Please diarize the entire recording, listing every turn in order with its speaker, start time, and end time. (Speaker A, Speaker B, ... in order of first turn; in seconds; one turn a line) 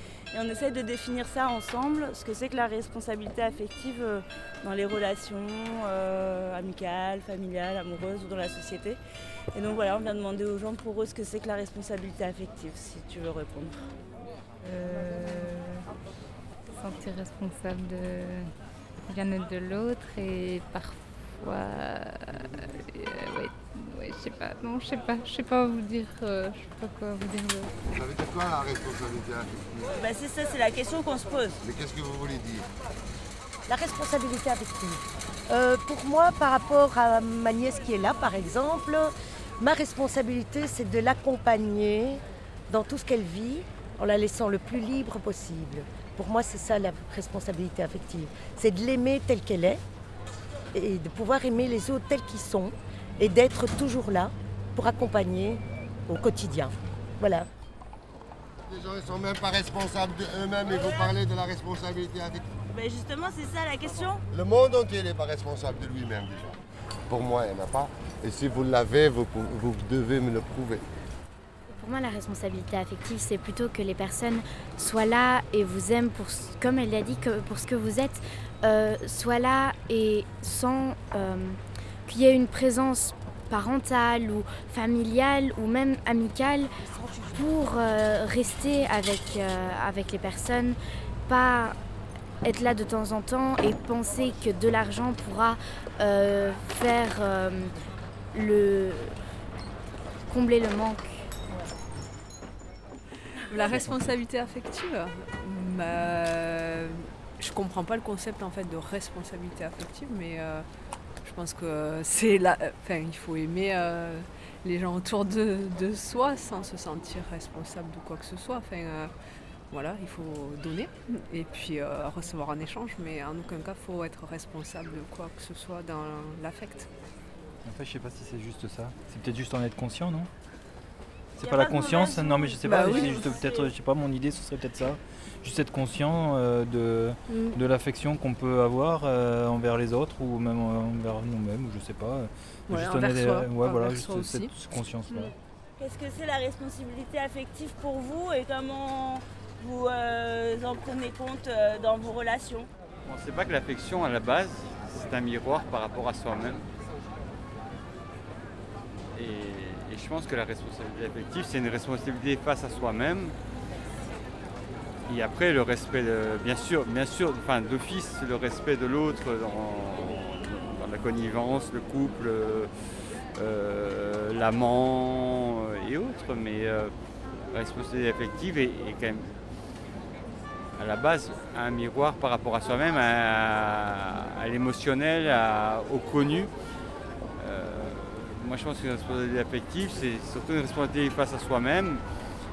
Speaker A: 0.3-9.0
Speaker A: 9.5-13.9
Speaker B: 14.6-15.9
Speaker B: 16.7-18.5
Speaker B: 19.1-27.7
Speaker C: 27.9-29.9
Speaker A: 29.9-31.6
Speaker C: 31.6-32.7
Speaker D: 33.7-49.8
Speaker D: 50.7-57.5
Speaker C: 58.7-62.4
Speaker A: 60.7-61.1
Speaker A: 62.7-64.2
Speaker C: 64.3-66.6
Speaker C: 67.1-70.8
Speaker E: 71.7-86.7
Speaker D: 86.9-87.5
Speaker E: 87.3-90.8
Speaker E: 91.3-91.8
Speaker E: 92.4-97.8
Speaker E: 98.3-99.2
Speaker E: 100.3-101.3
Speaker F: 103.5-110.7
Speaker F: 111.2-119.1
Speaker F: 119.7-126.9
Speaker G: 127.6-130.3
Speaker G: 131.4-145.3
Speaker A: 131.4-133.6
Speaker F: 132.6-133.3
Speaker F: 137.3-137.6
Speaker F: 142.7-144.5
Speaker A: 145.8-152.7
Speaker H: 153.0-156.6
Speaker H: 159.1-163.4
Speaker H: 165.1-172.7
Speaker H: 173.4-176.9
Speaker H: 177.5-179.3
Speaker H: 180.8-186.5
Speaker H: 187.4-192.0